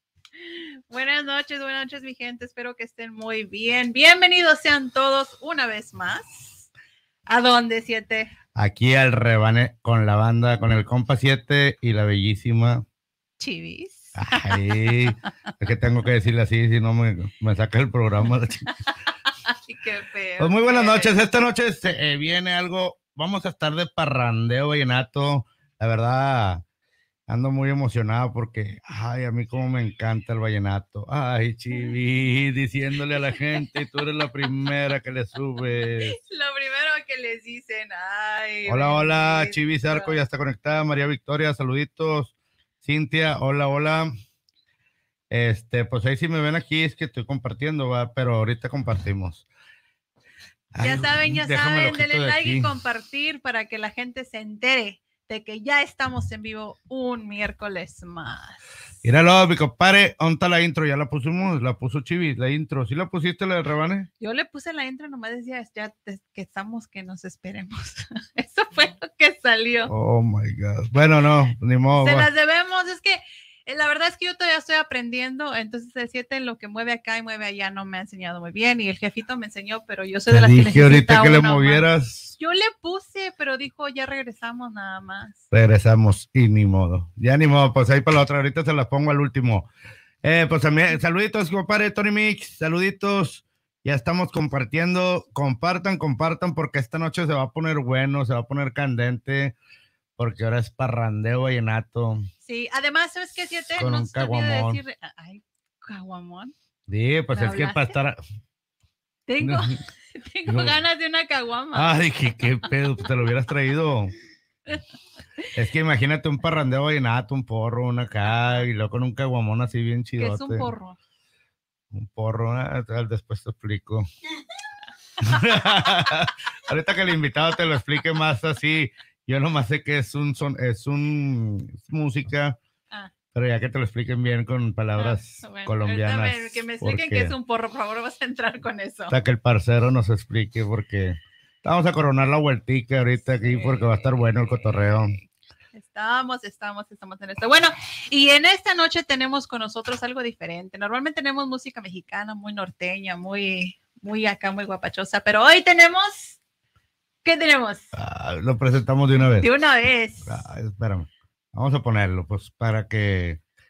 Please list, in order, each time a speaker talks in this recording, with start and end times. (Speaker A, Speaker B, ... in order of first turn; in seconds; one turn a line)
Speaker A: 0.4-6.6
Speaker A: 7.3-8.3
Speaker B: 8.6-12.8
Speaker A: 13.4-15.1
Speaker B: 14.2-18.6
Speaker A: 19.5-21.1
Speaker B: 20.4-26.6
Speaker B: 27.3-36.2
Speaker A: 36.0-40.2
Speaker B: 38.7-44.1
Speaker B: 45.3-49.4
Speaker B: 50.7-52.7
Speaker A: 50.8-58.7
Speaker B: 59.0-64.1
Speaker A: 64.2-69.9
Speaker B: 69.9-72.3
Speaker A: 71.9-81.9
Speaker B: 80.3-82.3
Speaker A: 82.4-85.4
Speaker B: 85.5-89.7
Speaker B: 90.2-99.5
Speaker B: 100.2-102.3
Speaker A: 102.4-106.5
Speaker B: 103.8-104.8
Speaker B: 106.9-108.2
Speaker A: 107.3-108.0
Speaker A: 109.3-112.0
Speaker B: 109.4-109.7
Speaker B: 110.5-110.8
Speaker B: 111.7-114.1
Speaker B: 115.5-120.7
Speaker A: 118.4-118.6
Speaker A: 120.2-121.0
Speaker B: 121.9-124.1
Speaker B: 125.2-132.6
Speaker B: 133.3-137.3
Speaker A: 135.0-139.2
Speaker B: 139.1-145.2
Speaker A: 143.4-156.4
Speaker A: 157.2-157.9
Speaker B: 157.9-159.5
Speaker A: 159.2-160.4
Speaker B: 160.3-163.4